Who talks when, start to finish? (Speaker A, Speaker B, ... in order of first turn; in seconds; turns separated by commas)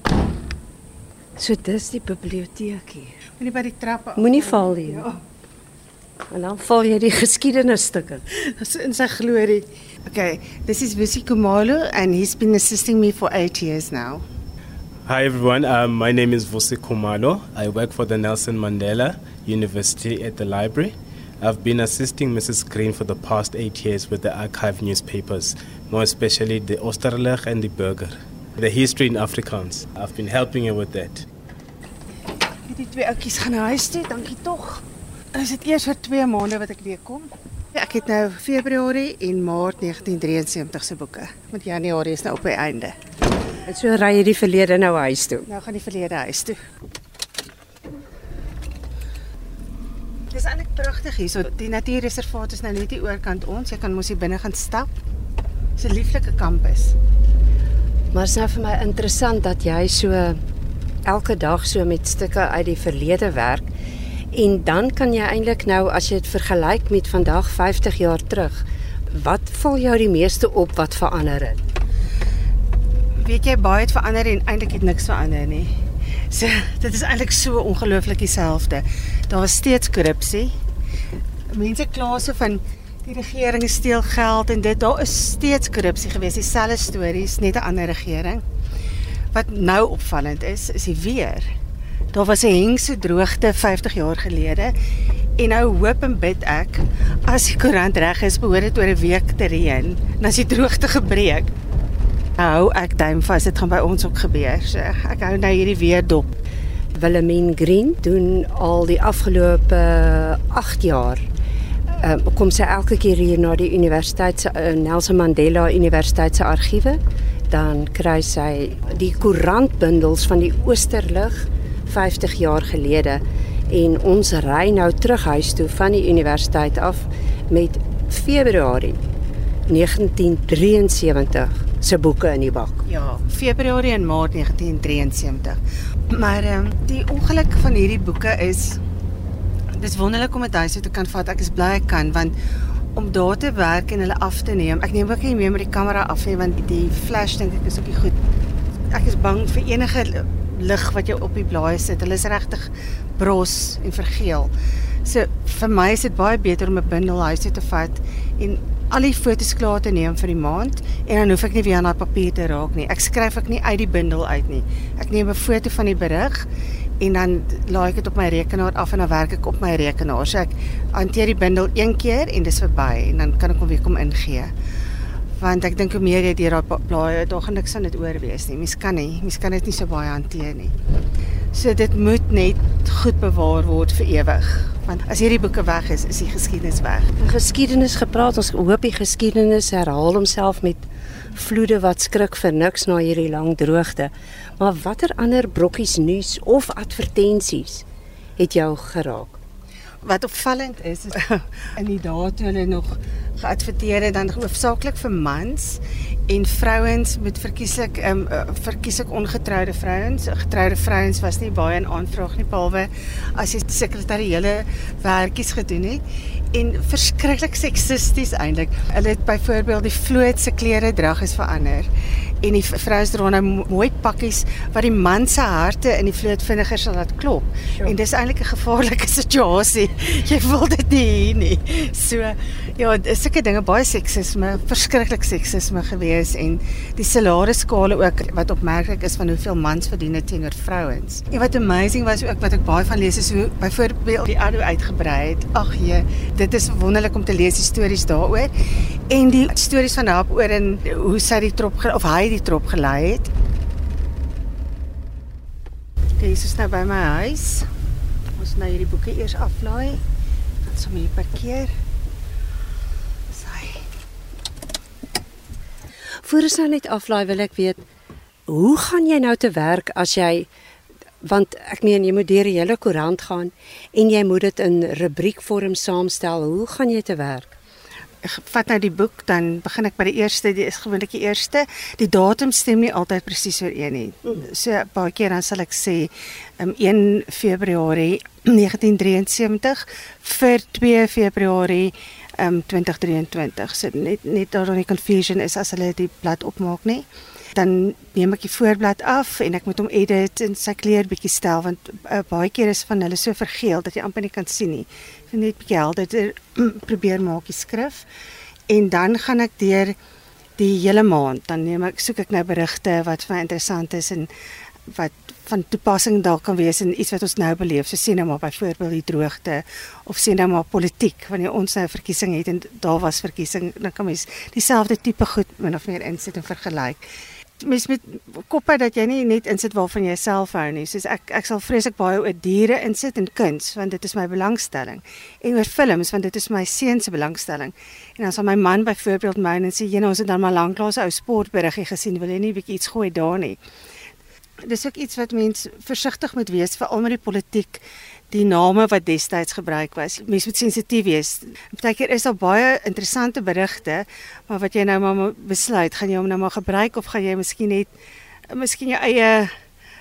Speaker A: 1.4-3.2, Speaker B: 3.4-5.2, Speaker A: 4.2-5.1, Speaker A: 6.3-8.2, Speaker B: 8.6-14.2, Speaker C: 15.1-31.3, Speaker B: 32.7-42.9, Speaker A: 43.6-45.5, Speaker B: 45.5-46.6, Speaker B: 50.3-54.9, Speaker B: 55.8-57.0, Speaker A: 58.1-60.4, Speaker A: 61.0-63.7, Speaker A: 64.3-71.6, Speaker B: 73.2-75.7, Speaker B: 76.3-80.5, Speaker B: 81.5-88.4, Speaker B: 89.3-91.5, Speaker B: 92.1-94.7, Speaker B: 95.4-101.5, Speaker B: 102.4-106.3, Speaker A: 106.9-111.3, Speaker A: 112.0-129.0, Speaker A: 129.7-132.8, Speaker B: 132.8-135.6, Speaker B: 136.1-138.8, Speaker B: 139.7-142.3, Speaker B: 142.9-148.1, Speaker B: 148.9-154.5, Speaker B: 155.0-166.5, Speaker B: 167.0-174.5, Speaker B: 175.4-180.7, Speaker B: 181.5-187.1, Speaker A: 187.2-197.8, Speaker A: 198.4-199.4, Speaker B: 200.0-221.9, Speaker B: 222.4-248.5, Speaker B: 249.1-253.3, Speaker B: 256.2-257.7, Speaker B: 258.4-260.0, Speaker B: 260.6-261.7, Speaker B: 263.3-263.8, Speaker A: 266.2-267.8, Speaker A: 268.5-270.5, Speaker A: 271.2-277.5, Speaker B: 278.2-308.1, Speaker B: 308.7-309.9, Speaker B: 310.6-314.3, Speaker B: 314.9-327.0, Speaker B: 327.6-343.6, Speaker B: 344.6-357.9, Speaker B: 358.5-359.5